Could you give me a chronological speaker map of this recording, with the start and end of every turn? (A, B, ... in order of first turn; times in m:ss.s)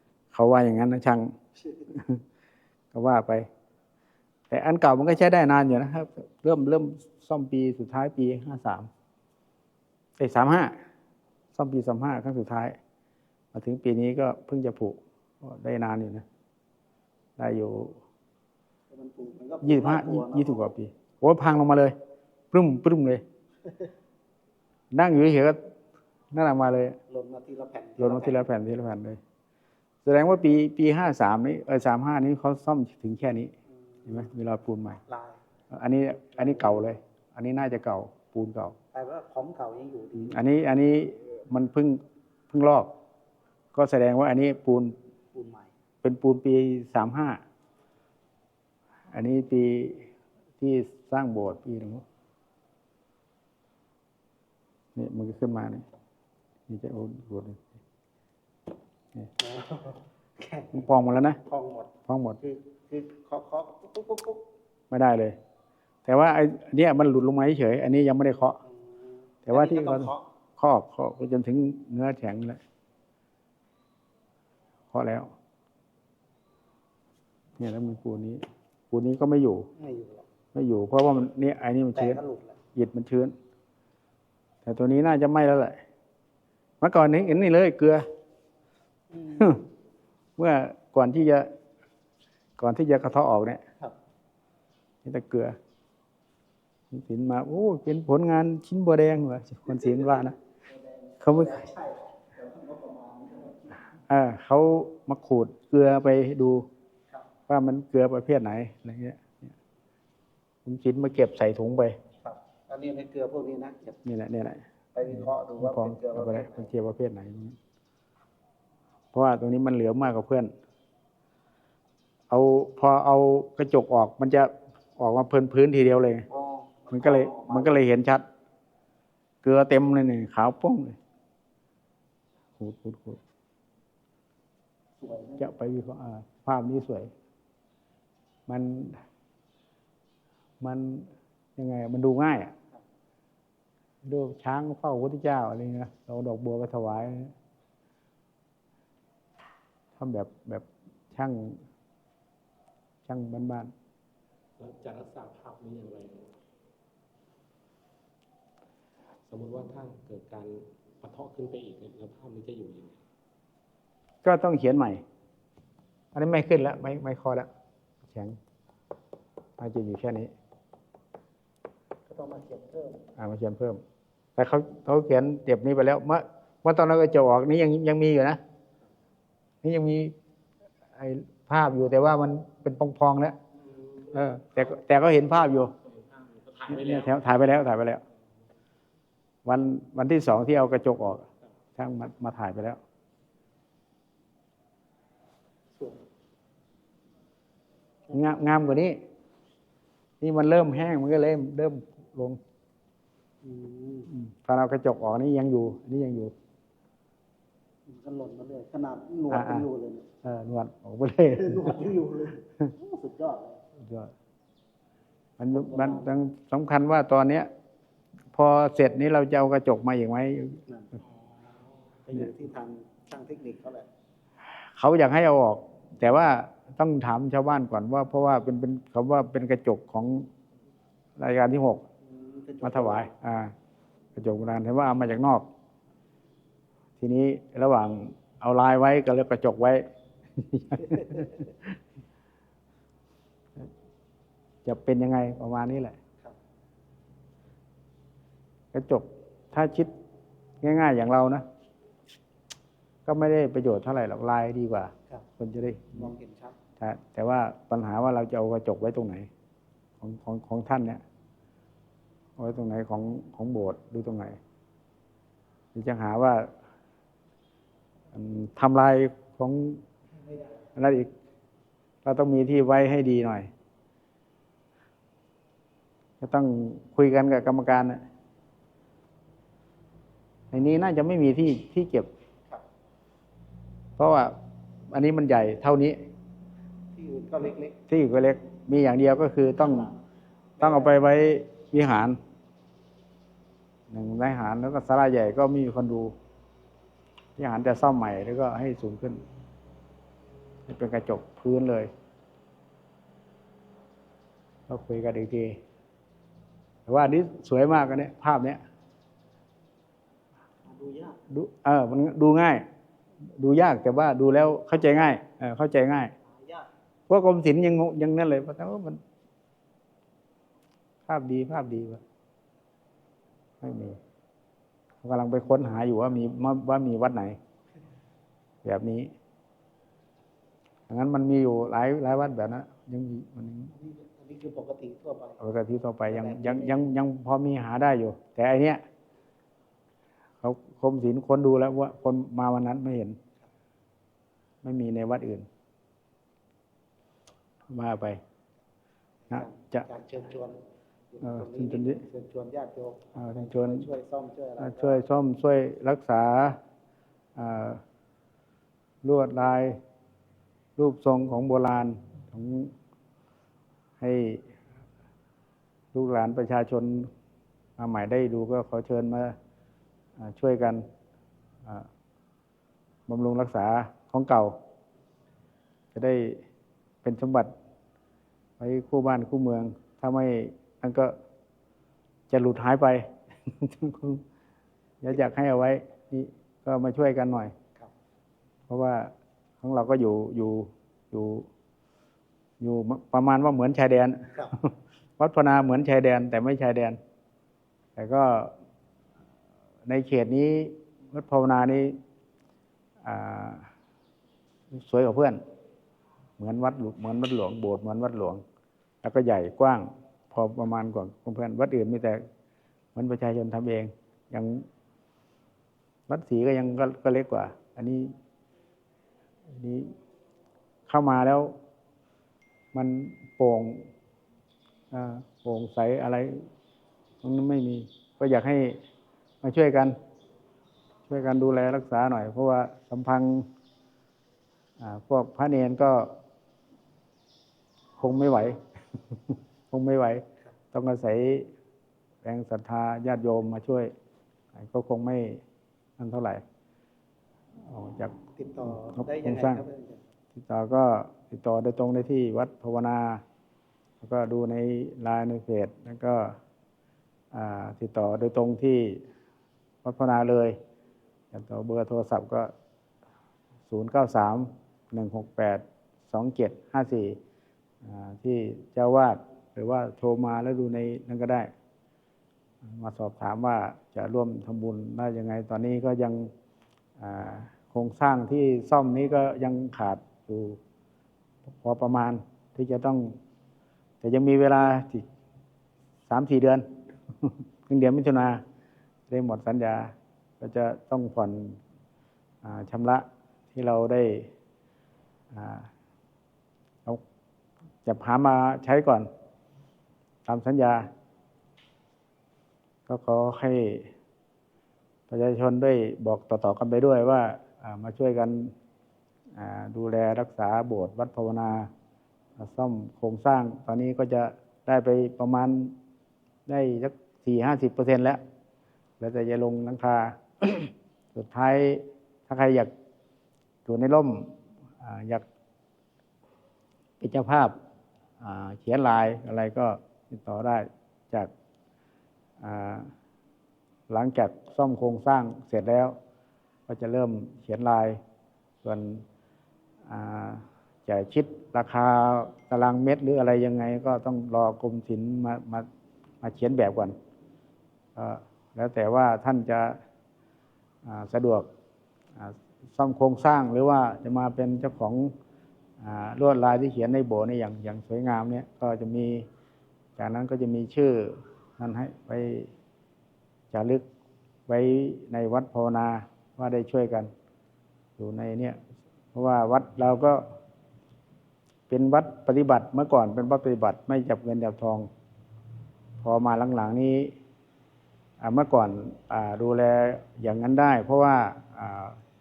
0:00.3-0:01.3 A
0:01.9-0:02.2 A
0:02.9-0:03.5 A
0:04.5-0:08.9 A
0:10.2-0:10.7 A
0:11.5-0:12.8 A
0:13.5-0:16.2 A
0:17.4-0:18.0 A
0:18.9-0:20.7 B
0:19.6-0:21.9 A
0:22.5-0:23.2 A
0:24.9-0:25.6 A
0:26.3-0:27.0 A
0:27.1-0:28.5 B
0:28.0-0:29.2 A
0:30.0-0:33.5 A
0:34.1-0:35.0 A
0:35.1-0:35.4 B
0:35.7-0:38.8 A
0:36.4-0:36.8 B
0:38.9-0:40.4 B
0:40.2-0:42.9 A
0:43.7-0:44.9 A
0:45.3-0:45.7 B
0:46.0-0:47.4 A
0:49.1-0:50.1 A
0:50.6-0:52.0 A
0:54.9-0:55.8 A
0:56.7-0:57.6 A
0:59.4-1:04.4 B
1:00.7-1:01.4 A
1:02.1-1:02.4 A
1:04.9-1:05.4 A
1:06.0-1:08.6 A
1:08.6-1:10.2 B
1:09.4-1:12.6 A
1:14.9-1:15.3 A
1:17.6-1:19.7 A
1:19.8-1:20.2 B
1:20.5-1:22.2 A
1:21.9-1:22.6 B
1:22.7-1:23.3 A
1:24.6-1:25.8 A
1:26.8-1:28.0 A
1:29.1-1:29.6 B
1:29.4-1:29.6 A
1:30.4-1:31.5 A
1:32.6-1:33.6 A
1:35.0-1:35.6 A
1:36.9-1:40.3 A
1:39.7-1:43.8 B
1:41.2-1:41.6 A
1:44.1-1:46.6 A
1:47.5-1:49.5 A
1:50.6-1:52.0 A
1:52.2-1:54.0 B
1:54.0-1:57.6 A
1:54.9-1:56.7 B
1:59.1-2:00.5 A
2:02.3-2:06.2 A
2:06.3-2:07.8 B
2:06.9-2:08.2 A
2:09.4-2:11.0 A
2:12.6-2:13.2 A
2:15.0-2:15.5 B
2:15.4-2:17.1 A
2:18.5-2:19.0 A
2:20.6-2:22.5 A
2:24.0-2:27.3 A
2:30.0-2:31.6 A
2:33.1-2:33.7 A
2:34.6-2:36.3 C
2:39.3-2:43.0 C
2:44.2-2:45.0 A
2:46.1-2:47.5 A
2:48.1-2:48.4 A
2:49.6-2:50.3 A
2:52.1-2:53.0 B
2:53.2-2:53.8 A
2:54.4-2:58.4 A
2:59.6-3:00.1 A
3:01.0-3:03.4 A
3:04.1-3:05.7 A
3:05.8-3:07.2 C
3:06.7-3:08.0 A
3:09.4-3:11.2 A
3:11.8-3:12.8 A
3:15.8-3:16.0 B
3:18.1-3:19.0 A
3:20.2-3:22.4 A
3:23.4-3:24.1 B
3:24.1-3:26.3 A
3:27.9-3:30.1 B
3:29.3-3:29.6 A
3:30.2-3:31.8 A
3:31.3-3:33.6 B
3:33.8-3:34.1 A
3:35.4-3:37.5 A
3:35.5-3:36.1 B
3:38.3-3:40.6 A
3:40.7-3:41.0 B
3:42.0-3:43.9 B
3:44.8-3:50.3 A
3:51.2-3:51.8 A
3:52.0-3:53.1 B
3:52.6-3:53.5 A
3:54.2-3:55.4 A
3:57.0-4:01.7 A
4:00.9-4:01.3 B
4:04.6-4:06.0 A
4:08.7-4:09.9 A
4:10.6-4:11.4 A
4:13.0-4:16.1 A
4:15.9-4:16.6 B
4:16.8-4:19.3 A
4:20.0-4:21.0 A
4:22.4-4:24.4 A
4:25.7-4:26.5 A
4:28.1-4:29.8 A
4:30.2-4:30.6 B
4:30.8-4:31.1 A
4:32.0-4:33.5 A
4:36.2-4:38.0 A
4:40.5-4:42.1 A
4:44.0-4:44.4 A
4:44.9-4:46.0 A
4:46.9-4:47.8 B
4:47.9-4:49.9 A
4:50.6-4:51.0 B
4:50.6-4:52.2 A
4:53.9-4:56.1 A
4:57.4-4:59.2 A
5:00.6-5:01.9 A
5:04.7-5:05.6 A
5:06.9-5:08.6 A
5:10.6-5:11.2 B
5:11.3-5:12.6 A
5:13.4-5:16.1 A
5:16.2-5:16.7 B
5:17.1-5:19.0 A
5:21.1-5:22.0 A
5:23.6-5:24.0 A
5:25.0-5:27.4 A
5:28.6-5:29.1 A
5:30.9-5:33.7 A
5:33.7-5:35.4 B
5:35.4-5:38.8 A
5:36.1-5:36.9 B
5:40.4-5:43.2 A
5:44.6-5:45.5 A
5:47.7-5:48.2 A
5:49.3-5:50.6 B
5:49.3-5:49.8 A
5:51.1-5:55.0 B
5:51.2-5:52.0 A
5:53.2-5:53.8 A
5:54.6-5:56.6 A
5:57.4-5:57.8 A
5:59.0-5:59.8 A
6:00.8-6:02.7 A
6:04.0-6:04.4 A
6:05.9-6:07.1 A
6:07.8-6:09.4 A
6:10.2-6:10.8 A
6:13.1-6:14.6 A
6:15.9-6:16.4 A
6:17.0-6:17.5 A
6:18.6-6:21.1 A
6:22.3-6:24.2 A
6:25.0-6:27.5 A
6:28.7-6:31.5 A
6:32.6-6:37.0 A
6:38.0-6:38.5 A
6:39.8-6:42.0 A
6:43.0-6:43.7 A
6:44.7-6:45.4 A
6:46.4-6:48.4 A
6:49.0-6:52.2 A
6:52.9-6:54.7 A
6:56.1-6:58.1 A
6:59.5-6:59.9 A
7:00.9-7:01.6 A
7:02.7-7:03.9 A
7:04.9-7:06.5 A
7:07.2-7:08.8 A
7:09.4-7:10.0 A
7:11.1-7:13.5 A
7:14.8-7:16.2 A
7:18.0-7:18.6 A
7:19.1-7:21.5 A
7:22.2-7:23.9 A
7:24.5-7:25.4 A
7:26.0-7:26.4 A
7:27.6-7:29.6 A
7:28.4-7:30.1 B
7:30.3-7:33.2 A
7:34.0-7:36.4 A
7:37.3-7:39.0 A
7:39.8-7:40.6 A
7:41.3-7:42.5 A
7:43.7-7:47.2 A
7:47.8-7:51.5 A
7:52.6-7:56.3 A
7:57.0-8:00.6 A
8:01.4-8:03.2 A
8:04.0-8:05.0 A
8:06.1-8:06.7 A
8:07.2-8:08.4 A
8:09.1-8:11.6 A
8:12.4-8:14.3 A
8:15.3-8:15.7 A
8:17.8-8:19.1 A
8:20.2-8:20.9 A
8:22.9-8:23.9 A
8:25.1-8:28.5 A
8:29.3-8:31.7 A
8:32.4-8:35.7 A
8:36.5-8:38.2 A
8:39.0-8:42.7 A
8:43.6-8:45.2 A
8:47.0-8:47.5 A
8:48.2-8:51.3 A
8:52.4-8:52.9 A
8:53.9-8:56.0 A
8:56.7-8:58.0 A
8:58.6-8:59.0 A
8:59.8-9:05.6 A
9:06.2-9:06.9 A
9:07.9-9:09.8 A
9:10.8-9:11.5 A
9:12.2-9:15.1 A
9:15.8-9:19.3 A
9:20.0-9:22.5 A
9:23.5-9:23.8 A
9:24.5-9:27.1 A
9:28.0-9:28.6 A
9:29.1-9:30.2 A
9:31.7-9:34.9 A
9:36.0-9:37.1 A
9:38.2-9:42.0 A